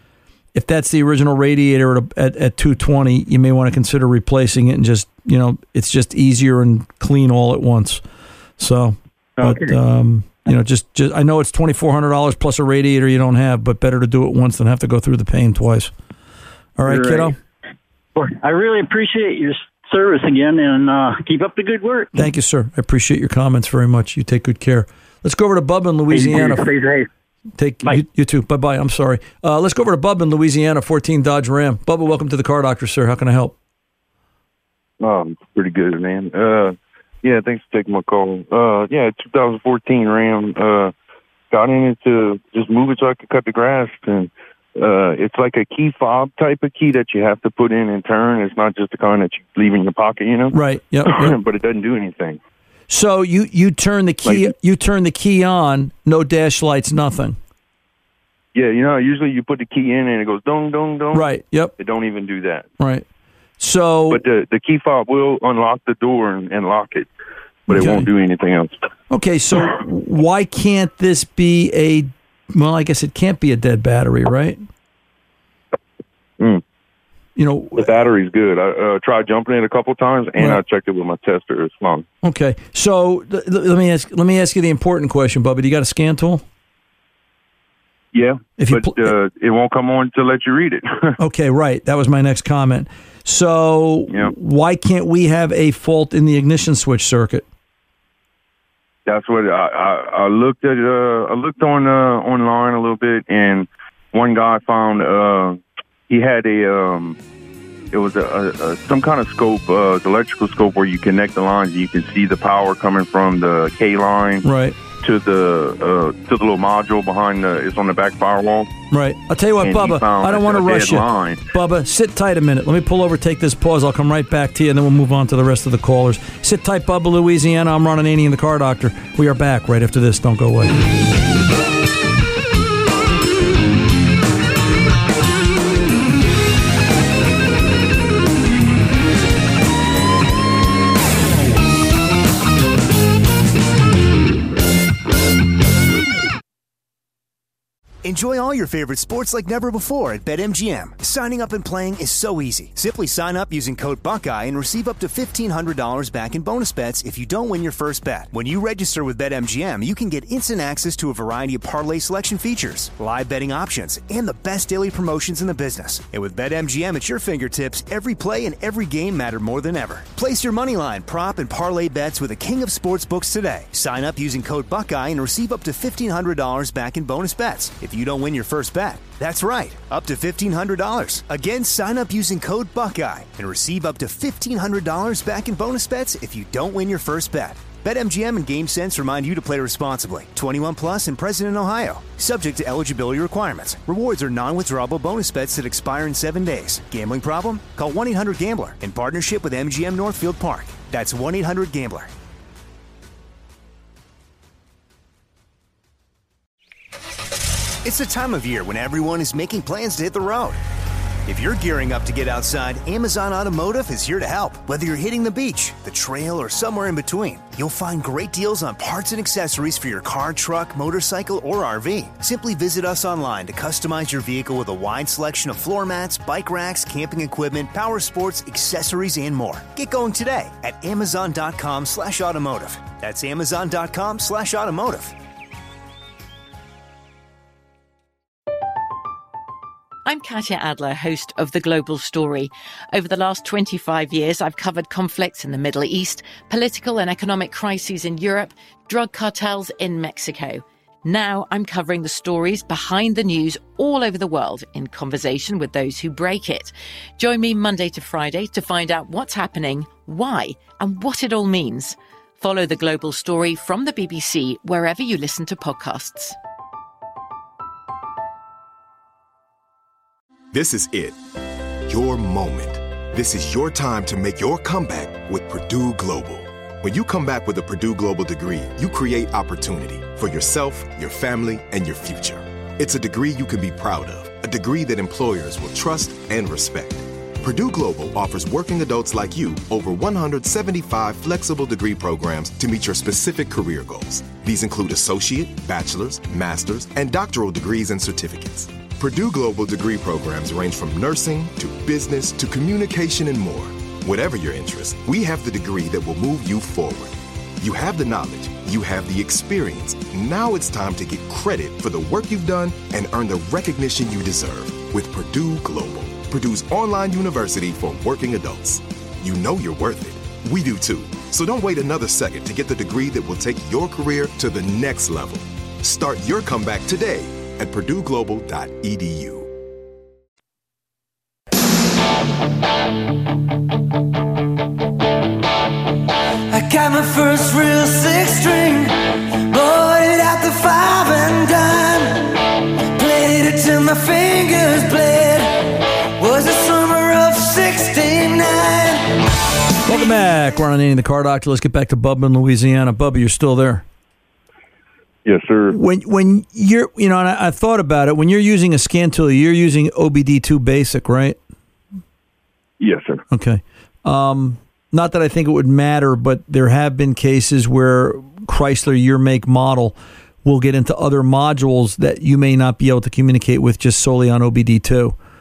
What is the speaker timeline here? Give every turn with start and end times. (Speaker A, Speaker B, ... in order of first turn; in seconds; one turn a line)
Speaker A: 0.5-8.0
Speaker A: 8.6-15.9
Speaker B: 9.4-9.7
Speaker A: 16.8-17.4
Speaker B: 16.8-17.4
Speaker B: 18.1-22.1
Speaker A: 22.1-26.7
Speaker B: 26.1-27.1
Speaker A: 27.6-33.5
Speaker C: 35.0-40.9
Speaker C: 41.5-52.4
Speaker A: 50.5-51.4
Speaker A: 52.9-57.4
Speaker C: 54.2-54.5
Speaker C: 58.5-62.7
Speaker A: 61.1-61.7
Speaker A: 62.8-63.0
Speaker A: 63.6-64.2
Speaker C: 64.1-67.1
Speaker C: 67.7-68.7
Speaker A: 67.7-68.1
Speaker A: 69.1-74.6
Speaker A: 77.3-77.9
Speaker C: 77.7-82.0
Speaker A: 82.2-86.4
Speaker C: 88.1-91.2
Speaker A: 88.6-89.1
Speaker A: 91.2-97.4
Speaker C: 99.0-107.2
Speaker C: 107.9-114.5
Speaker A: 114.4-114.8
Speaker C: 115.0-118.8
Speaker A: 118.9-130.7
Speaker C: 119.6-121.4
Speaker D: 148.0-202.1
Speaker D: 207.8-210.6
Speaker D: 211.2-235.1
Speaker E: 240.1-266.4
Speaker F: 270.5-271.2
Speaker F: 271.9-329.5
Speaker G: 336.5-349.3
Speaker A: 349.9-353.8
Speaker C: 355.2-355.8
Speaker A: 355.7-361.4
Speaker C: 362.8-363.2
Speaker A: 363.3-375.1